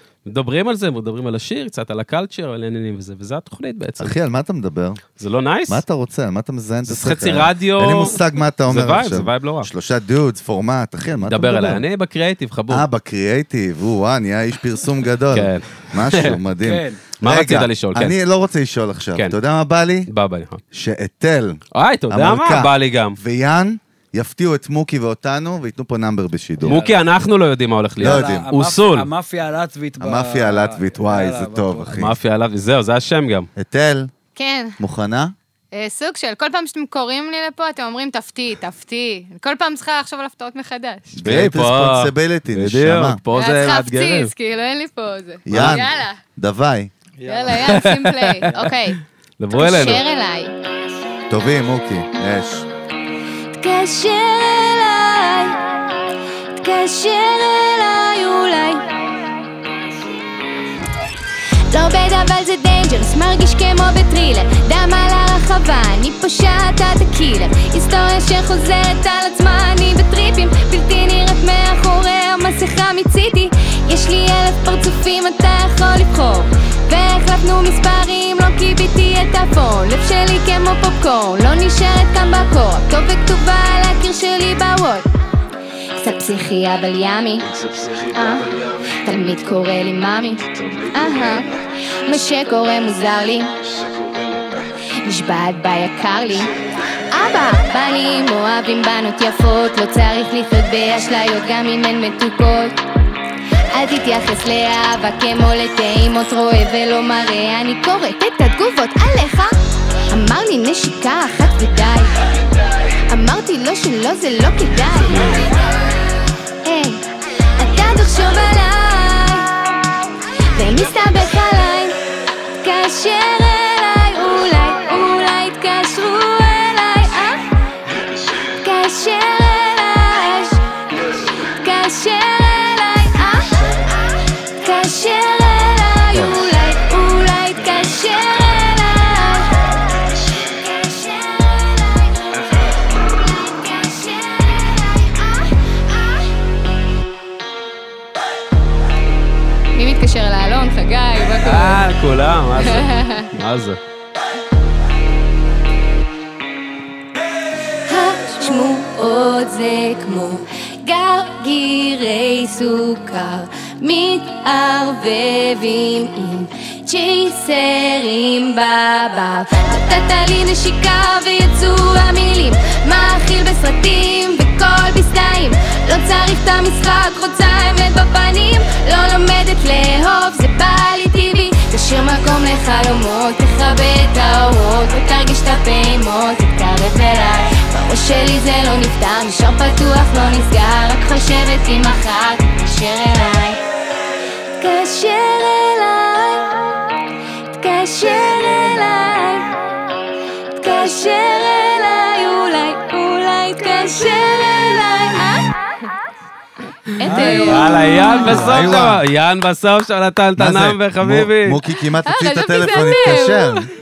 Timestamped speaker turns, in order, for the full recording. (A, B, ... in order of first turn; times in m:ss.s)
0:00.3-0:04.2 A
0:04.0-0:05.0 B
0:05.2-0:05.8 A
0:05.7-0:11.8 B
0:06.9-0:09.7 A
0:11.2-0:12.9 A
0:12.7-0:20.1 B
0:15.3-0:16.4 A
0:16.6-0:17.0 C
0:17.2-0:18.2 A
0:20.1-0:20.6 A
0:20.7-0:26.8 B
0:21.7-0:23.2 A
0:26.6-0:29.1 A
0:26.6-0:27.0 C
0:28.0-0:28.5 B
0:28.0-0:32.0 C
0:30.0-0:32.2 B
0:31.9-0:33.5 A
0:33.6-0:34.1 B
0:34.4-0:34.8 D
0:34.8-0:35.3 B
0:35.7-0:41.1 D
0:41.1-0:43.2 B
0:41.2-0:44.3 A
0:43.4-0:46.2 D
0:45.5-0:46.9 B
0:45.5-0:45.8 A
0:47.3-0:49.0 D
0:47.5-0:48.7 A
0:49.4-0:50.0 A
0:49.6-0:50.5 D
0:51.3-0:52.7 B
0:53.6-0:56.0 E
0:56.6-0:59.5 E
1:01.7-1:25.1 E
1:26.0-1:31.5 E
1:32.0-1:33.5 E
1:35.0-1:36.6 E
1:37.1-1:42.8 E
1:43.7-1:49.5 E
1:50.1-1:52.2 E
1:53.1-1:55.5 E
1:55.1-1:55.5 A
1:56.6-1:57.0 E
1:57.6-1:59.8 E
2:00.5-2:02.0 E
2:02.6-2:07.5 E
2:08.5-2:10.6 E
2:11.2-2:13.9 E
2:14.6-2:19.7 E
2:20.4-2:26.3 E
2:29.7-2:31.8 D
2:31.4-2:33.8 A
2:32.5-2:33.3 D
2:37.8-3:13.6 E
3:14.6-3:17.0 E
3:17.6-3:19.5 E
3:20.6-3:25.6 E
3:27.0-3:28.4 E
3:27.0-3:28.6 D
3:27.0-3:28.9 C
3:27.2-3:31.6 A
3:28.3-3:29.0 B
3:30.4-3:33.7 B
3:32.0-3:33.7 D